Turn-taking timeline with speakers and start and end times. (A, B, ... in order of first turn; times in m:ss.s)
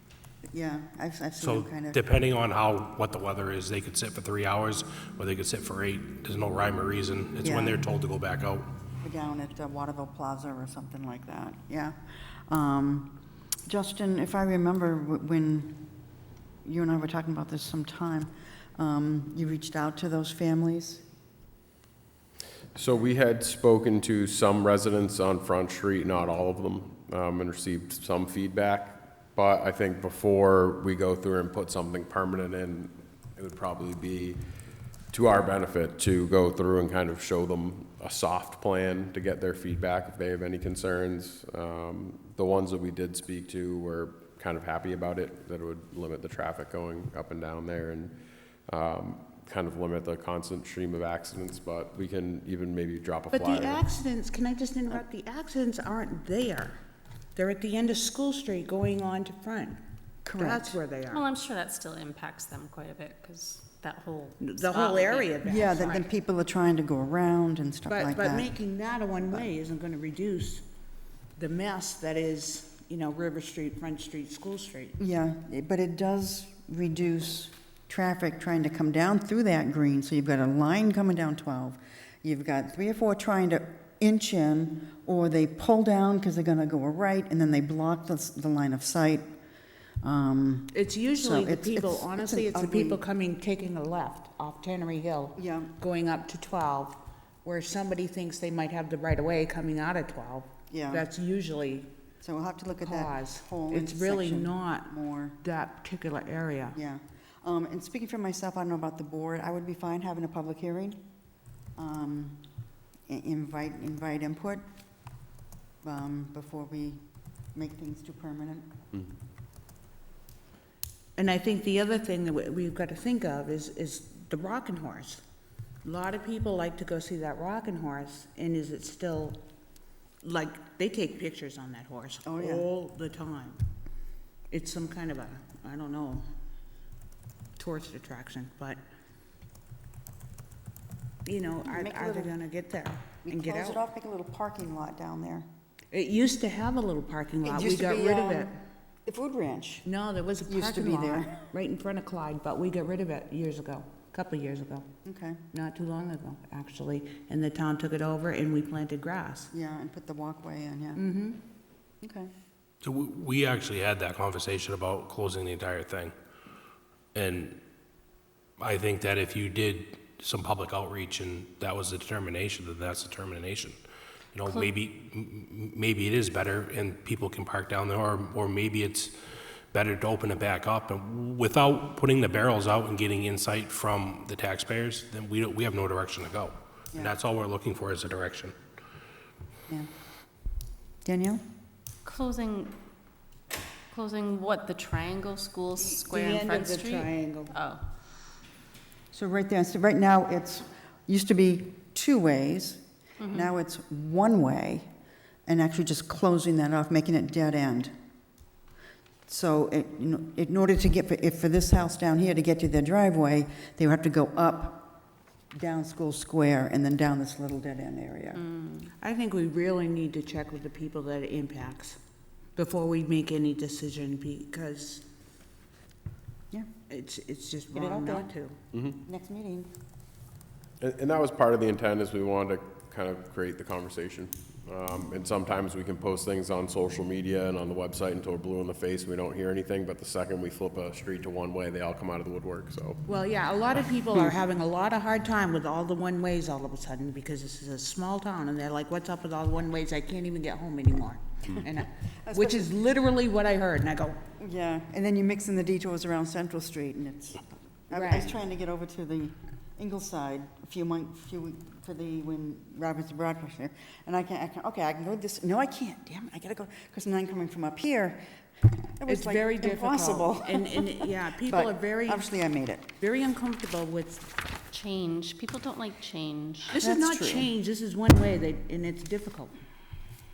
0:00.5-0:02.0 A
0:01.4-0:08.7 B
0:07.4-0:07.8 A
0:09.0-0:12.0 A
0:12.5-0:13.1 A
0:13.7-0:15.8 A
0:16.6-0:21.0 A
0:22.7-0:34.4 C
0:35.1-0:48.1 C
0:48.7-0:53.8 C
0:53.3-0:56.8 D
0:57.3-0:59.8 D
1:00.2-1:00.8 A
1:00.4-1:01.2 D
1:01.1-1:05.3 E
1:04.4-1:06.1 D
1:05.4-1:08.5 A
1:07.9-1:10.6 D
1:11.4-1:15.0 D
1:15.0-1:29.3 A
1:30.0-1:33.0 A
1:30.7-1:41.9 D
1:35.4-1:35.7 A
1:40.7-1:41.1 A
1:42.2-1:45.4 A
1:42.8-1:46.8 D
1:46.7-1:51.0 A
1:51.8-1:52.4 A
1:53.1-1:54.6 A
1:55.8-1:57.0 A
1:57.5-1:58.7 A
2:01.2-2:05.2 D
2:05.8-2:09.4 D
2:10.2-2:13.6 D
2:12.2-2:12.6 A
2:14.5-2:16.2 D
2:17.6-2:18.8 D
2:21.2-2:23.8 D
2:21.7-2:22.3 A
2:23.2-2:25.4 A
2:25.9-2:28.5 D
2:27.4-2:28.5 A
2:29.0-2:29.8 A
2:29.8-2:34.9 D
2:30.5-2:31.3 A
2:35.0-2:35.4 A
2:35.5-2:39.5 D
2:39.5-2:41.0 A
2:41.0-2:41.4 D
2:42.0-2:42.3 A
2:42.8-2:46.1 B
2:47.1-2:47.6 B
2:48.6-2:53.7 B
2:54.3-2:59.1 B
2:54.4-2:54.7 E
2:59.7-3:08.5 B
3:11.0-3:11.4 A
3:12.0-3:12.7 E
3:13.9-3:17.8 E
3:15.8-3:17.5 D
3:19.1-3:24.9 A
3:23.2-3:23.5 E
3:25.4-3:27.9 A
3:29.3-3:34.9 A
3:35.5-3:38.4 A
3:38.3-3:38.9 E
3:39.0-3:42.0 D
3:42.5-3:45.0 D
3:46.9-3:48.6 D
3:47.7-3:48.3 A
3:49.0-3:49.7 A
3:50.8-4:03.0 C
4:03.0-4:14.2 D
4:12.2-4:12.7 A
4:14.4-4:28.2 A
4:17.9-4:18.4 D
4:29.0-4:30.8 A
4:29.1-4:32.2 D
4:31.4-4:32.9 A
4:33.0-4:34.3 D
4:34.7-4:36.8 E
4:36.7-4:39.6 D
4:36.7-4:37.5 A